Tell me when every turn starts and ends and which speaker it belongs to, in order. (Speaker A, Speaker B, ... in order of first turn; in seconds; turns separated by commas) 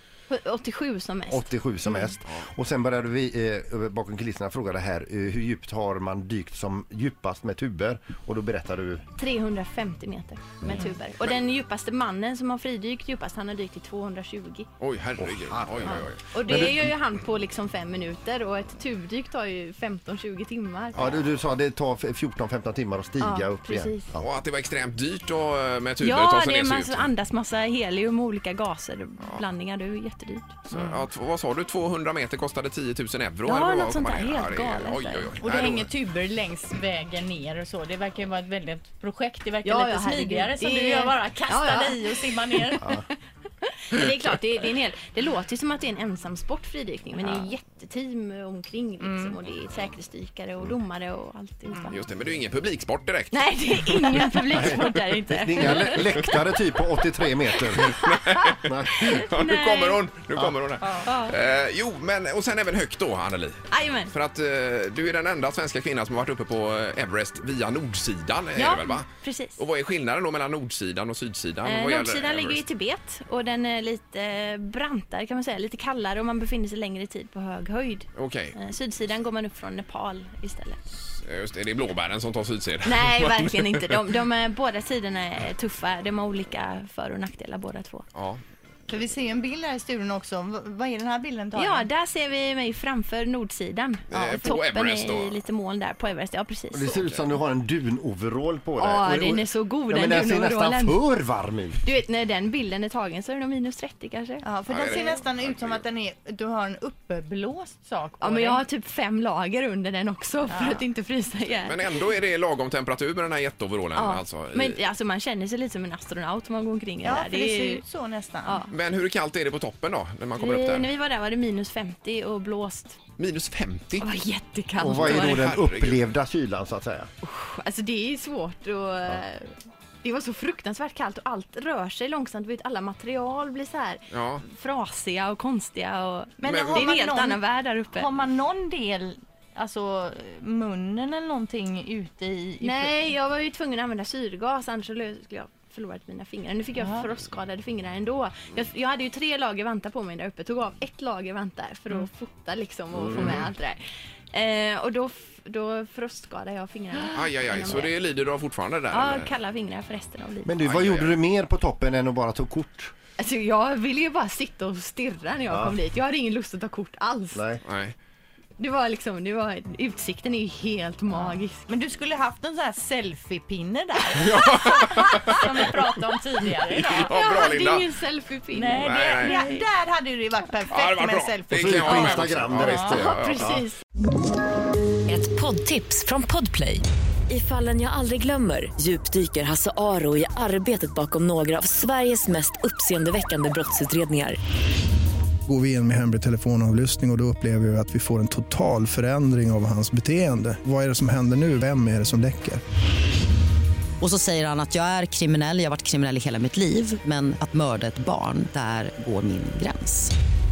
Speaker A: 0.3-1.5, Speaker B: 1.3-9.0, Speaker A: 9.2-14.7, Speaker C: 14.8-16.8, Speaker B: 15.2-16.9, Speaker A: 15.8-21.0, Speaker B: 20.9-24.3, Speaker A: 23.2-24.1, Speaker C: 24.2-27.1, Speaker A: 26.0-31.0, Speaker C: 30.7-35.9, Speaker A: 33.4-35.3, Speaker D: 35.4-42.9, Speaker A: 39.6-43.1, Speaker A: 43.7-52.0, Speaker D: 49.0-49.4, Speaker C: 51.9-55.0, Speaker A: 53.3-56.4, Speaker B: 54.5-58.0, Speaker A: 57.7-58.3, Speaker C: 57.7-72.6, Speaker B: 58.6-59.1, Speaker A: 58.9-60.0, Speaker A: 61.0-61.4, Speaker A: 63.7-64.1, Speaker A: 68.5-69.6, Speaker A: 71.6-80.8, Speaker C: 78.1-78.5, Speaker C: 81.2-84.0, Speaker A: 82.8-88.1, Speaker C: 88.1-88.4, Speaker D: 88.9-91.9, Speaker A: 91.5-97.1, Speaker C: 94.1-95.4, Speaker D: 94.1-94.6, Speaker B: 96.7-101.8, Speaker A: 98.8-101.0, Speaker A: 101.8-105.1, Speaker D: 104.4-108.6, Speaker C: 104.7-105.8, Speaker A: 108.2-112.1, Speaker D: 110.5-110.9, Speaker C: 111.5-114.8, Speaker A: 113.9-117.8, Speaker D: 117.0-118.6, Speaker A: 118.4-118.7, Speaker C: 118.7-120.9, Speaker A: 120.4-123.0, Speaker C: 123.2-124.1, Speaker A: 124.0-125.5, Speaker B: 124.8-127.1, Speaker C: 124.8-126.0, Speaker A: 127.2-138.1, Speaker C: 134.1-134.4, Speaker D: 136.4-143.1, Speaker C: 136.4-136.9, Speaker A: 142.6-153.8, Speaker D: 146.8-147.0, Speaker B: 152.9-153.4, Speaker C: 153.1-153.4, Speaker A: 154.3-157.9, Speaker C: 157.0-159.3, Speaker A: 158.9-160.5, Speaker B: 160.4-162.9, Speaker C: 160.6-161.2, Speaker A: 163.2-167.4, Speaker B: 165.5-165.8, Speaker B: 167.3-167.6, Speaker C: 167.6-167.9, Speaker A: 168.6-171.7, Speaker D: 171.1-177.1, Speaker C: 174.2-175.6, Speaker C: 176.6-177.9, Speaker A: 177.0-179.7, Speaker D: 178.5-183.0, Speaker C: 178.8-179.4, Speaker C: 180.7-183.6, Speaker B: 181.6-183.6, Speaker A: 182.9-183.8, Speaker E: 185.1-194.4, Speaker F: 195.5-202.6, Speaker G: 204.0-210.1